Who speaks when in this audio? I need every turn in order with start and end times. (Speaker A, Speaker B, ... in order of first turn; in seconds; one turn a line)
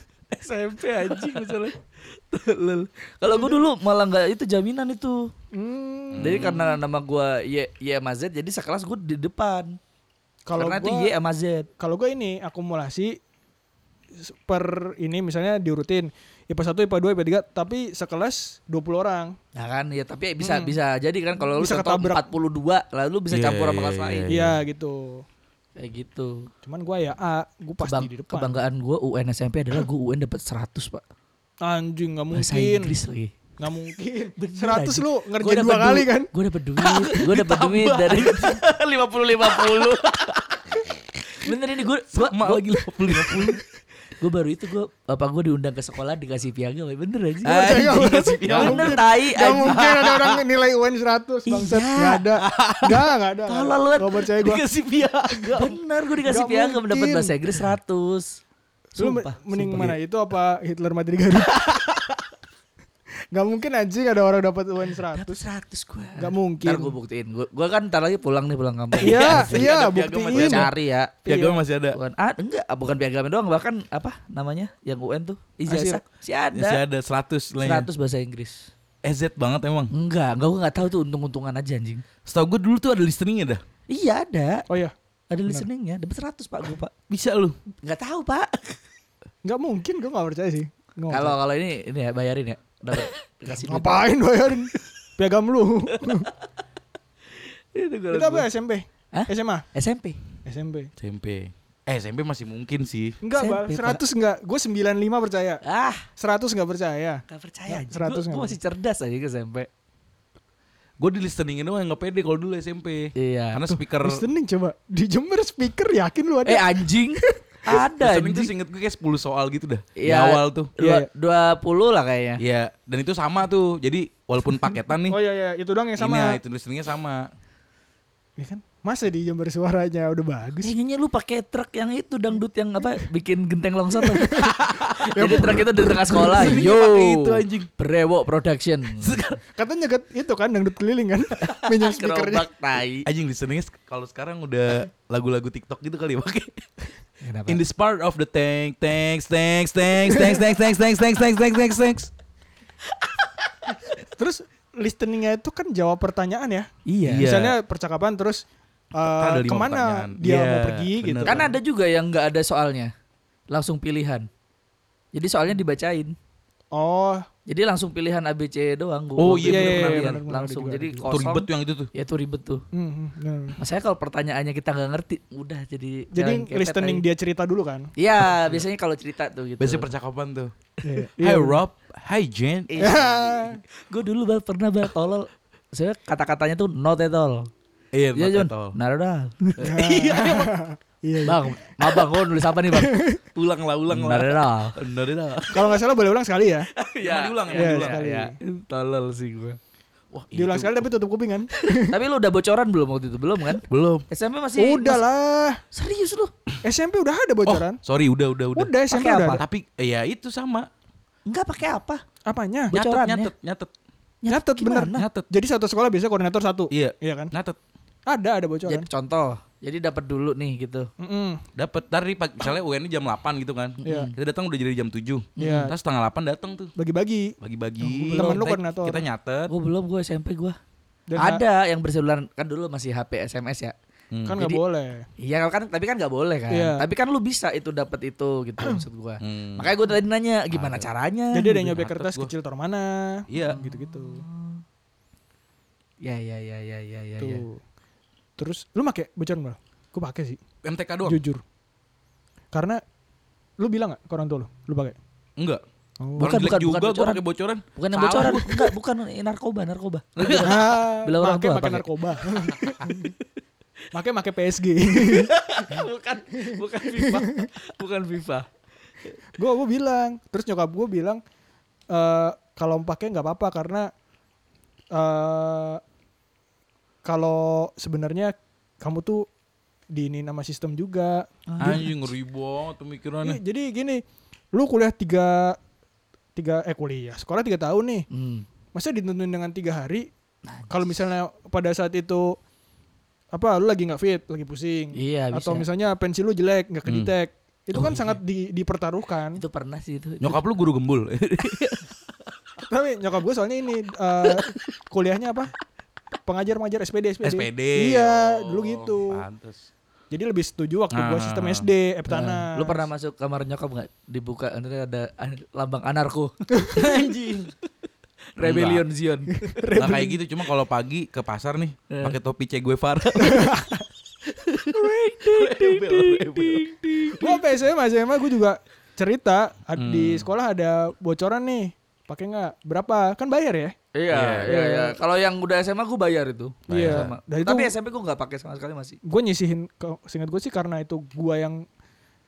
Speaker A: 0.3-5.3
Speaker B: 3.3-3.6
Speaker B: 5.5-6.6
Speaker C: 6.1-6.7
Speaker A: 6.2-9.8
Speaker B: 10.4-11.1
Speaker A: 10.6-11.7
Speaker B: 11.8-13.2
Speaker B: 14.2-19.4
Speaker A: 19.5-24.3
Speaker B: 20.4-20.8
Speaker B: 21.5-22.3
Speaker C: 23.3-24.6
Speaker B: 24.3-25.2
Speaker A: 25.8-26.5
Speaker B: 26.6-28.6
Speaker A: 27.8-31.0
Speaker B: 31.6-33.0
Speaker A: 32.3-33.3
Speaker B: 33.6-36.3
Speaker A: 34.4-40.3
Speaker C: 36.8-38.7
Speaker C: 39.4-40.4
Speaker A: 41.4-43.6
Speaker C: 42.1-43.6
Speaker A: 44.2-49.8
Speaker C: 47.4-49.0
Speaker B: 47.5-54.6
Speaker C: 49.6-50.4
Speaker A: 51.5-52.2
Speaker C: 52.4-53.1
Speaker A: 53.5-54.6
Speaker C: 54.5-55.7
Speaker A: 55.3-58.4
Speaker B: 56.2-57.4
Speaker A: 58.9-60.0
Speaker B: 59.0-61.6
Speaker B: 63.3-65.4
Speaker A: 65.1-69.8
Speaker B: 66.2-66.9
Speaker C: 68.9-70.7
Speaker B: 69.0-70.7
Speaker A: 70.3-71.2
Speaker B: 71.2-71.6
Speaker C: 71.2-72.0
Speaker A: 71.9-76.8
Speaker B: 75.7-76.0
Speaker C: 76.5-77.9
Speaker A: 77.6-78.7
Speaker C: 79.0-79.9
Speaker A: 79.9-82.0
Speaker C: 82.2-83.6
Speaker A: 83.9-84.7
Speaker B: 84.7-84.9
Speaker A: 85.3-86.9
Speaker C: 87.1-87.5
Speaker A: 87.8-88.8
Speaker B: 89.4-91.4
Speaker A: 91.1-94.1
Speaker B: 93.5-96.3
Speaker A: 97.4-98.5
Speaker B: 98.1-99.7
Speaker A: 99.1-100.2
Speaker B: 100.4-100.9
Speaker C: 101.0-103.2
Speaker B: 103.2-105.6
Speaker A: 103.3-104.0
Speaker A: 105.6-106.0
Speaker B: 106.2-108.6
Speaker A: 107.3-109.7
Speaker C: 111.0-114.2
Speaker A: 113.2-113.6
Speaker B: 114.0-117.4
Speaker A: 116.4-118.5
Speaker C: 118.0-120.7
Speaker A: 120.0-122.4
Speaker B: 120.8-121.1
Speaker C: 122.4-125.2
Speaker B: 125.1-126.4
Speaker C: 126.0-127.3
Speaker B: 128.4-130.7
Speaker A: 130.6-139.4
Speaker B: 134.0-134.6
Speaker C: 134.4-137.7
Speaker B: 135.2-136.5
Speaker C: 139.0-139.4
Speaker B: 139.6-142.5
Speaker A: 141.4-143.1
Speaker C: 143.1-146.7
Speaker A: 147.2-147.6
Speaker C: 147.5-152.1
Speaker B: 154.1-158.4
Speaker A: 156.8-157.3
Speaker C: 157.0-157.6
Speaker B: 158.9-161.5
Speaker C: 159.0-161.5
Speaker A: 161.2-162.9
Speaker A: 163.5-164.3
Speaker A: 165.1-166.1
Speaker B: 166.7-167.3
Speaker A: 167.5-172.6
Speaker C: 169.2-170.2
Speaker B: 169.4-171.2
Speaker C: 171.1-171.9
Speaker B: 172.7-173.6
Speaker A: 173.6-177.0
Speaker B: 176.1-177.9
Speaker A: 178.0-179.9
Speaker C: 179.6-180.5
Speaker B: 180.8-181.6
Speaker C: 181.2-183.0
Speaker A: 182.7-187.5
Speaker B: 182.8-183.6
Speaker C: 187.9-188.8
Speaker A: 188.2-189.7
Speaker C: 189.6-190.5
Speaker B: 189.6-192.0
Speaker A: 191.2-193.0
Speaker B: 192.7-193.2
Speaker C: 193.3-195.7
Speaker A: 193.9-194.8
Speaker B: 195.5-196.7
Speaker A: 196.8-199.6
Speaker C: 197.0-198.0
Speaker B: 197.5-198.3
Speaker C: 200.1-200.8
Speaker B: 200.3-201.9
Speaker A: 201.6-205.0
Speaker C: 203.6-204.0
Speaker B: 204.6-205.6
Speaker A: 205.7-206.3
Speaker B: 206.6-207.8
Speaker C: 207.4-208.7
Speaker B: 208.6-209.4
Speaker A: 208.9-209.4
Speaker C: 209.3-210.7
Speaker A: 211.3-212.0
Speaker B: 212.2-212.7
Speaker A: 212.7-213.3
Speaker C: 212.7-213.7
Speaker A: 214.2-215.1
Speaker B: 214.3-217.3
Speaker C: 214.9-215.2
Speaker C: 216.7-217.6
Speaker B: 218.1-218.9
Speaker A: 218.7-220.9
Speaker B: 221.0-221.4
Speaker C: 221.6-226.7
Speaker A: 223.8-224.1
Speaker B: 223.8-224.1
Speaker A: 225.3-225.7
Speaker B: 225.4-225.7
Speaker B: 226.8-227.3
Speaker C: 227.4-229.5
Speaker A: 227.9-228.4
Speaker B: 228.1-229.0
Speaker A: 229.5-230.6
Speaker B: 231.1-231.4
Speaker A: 231.2-233.7
Speaker C: 234.1-234.4
Speaker B: 234.2-235.1
Speaker A: 235.2-241.7
Speaker B: 236.5-236.8
Speaker C: 239.2-239.8
Speaker C: 240.5-240.9
Speaker B: 241.3-244.2
Speaker C: 241.7-242.3
Speaker C: 243.3-243.6
Speaker A: 243.4-244.6
Speaker A: 246.0-247.4
Speaker B: 247.2-247.6
Speaker B: 248.4-250.4
Speaker C: 250.6-251.2
Speaker B: 251.1-251.4
Speaker B: 252.5-252.8
Speaker B: 253.6-255.0
Speaker C: 255.4-255.6
Speaker B: 256.0-256.4
Speaker C: 256.2-258.7
Speaker A: 256.2-257.2
Speaker A: 257.8-261.9
Speaker C: 260.2-260.6
Speaker B: 260.4-263.1
Speaker C: 262.3-262.9
Speaker B: 263.9-265.3
Speaker A: 265.0-268.5
Speaker B: 266.4-267.5
Speaker B: 269.4-271.2
Speaker B: 271.9-273.9
Speaker B: 274.9-275.8
Speaker B: 277.0-279.2
Speaker B: 279.9-281.8
Speaker A: 281.5-281.9
Speaker C: 281.6-283.4
Speaker B: 283.2-285.6
Speaker B: 286.4-288.1
Speaker A: 288.1-288.4
Speaker B: 288.7-290.1
Speaker B: 290.7-292.4
Speaker B: 293.3-299.4
Speaker A: 294.9-295.6
Speaker C: 296.9-297.1
Speaker A: 297.7-298.2
Speaker A: 299.3-300.4
Speaker C: 300.2-301.9
Speaker B: 302.6-305.5
Speaker B: 306.2-309.2
Speaker C: 307.2-309.7
Speaker B: 310.1-312.9
Speaker C: 310.9-311.7
Speaker A: 312.1-317.0
Speaker C: 316.7-317.5
Speaker A: 318.4-319.3
Speaker C: 318.4-318.8
Speaker B: 319.4-320.2
Speaker C: 319.7-323.5
Speaker A: 321.9-322.1
Speaker B: 323.2-323.8
Speaker C: 324.5-327.1
Speaker A: 324.7-327.4
Speaker B: 327.2-333.7
Speaker C: 329.8-330.3
Speaker A: 333.9-339.0
Speaker C: 334.1-334.5
Speaker B: 334.4-334.9
Speaker C: 336.7-337.1
Speaker B: 336.7-337.7
Speaker B: 339.0-341.6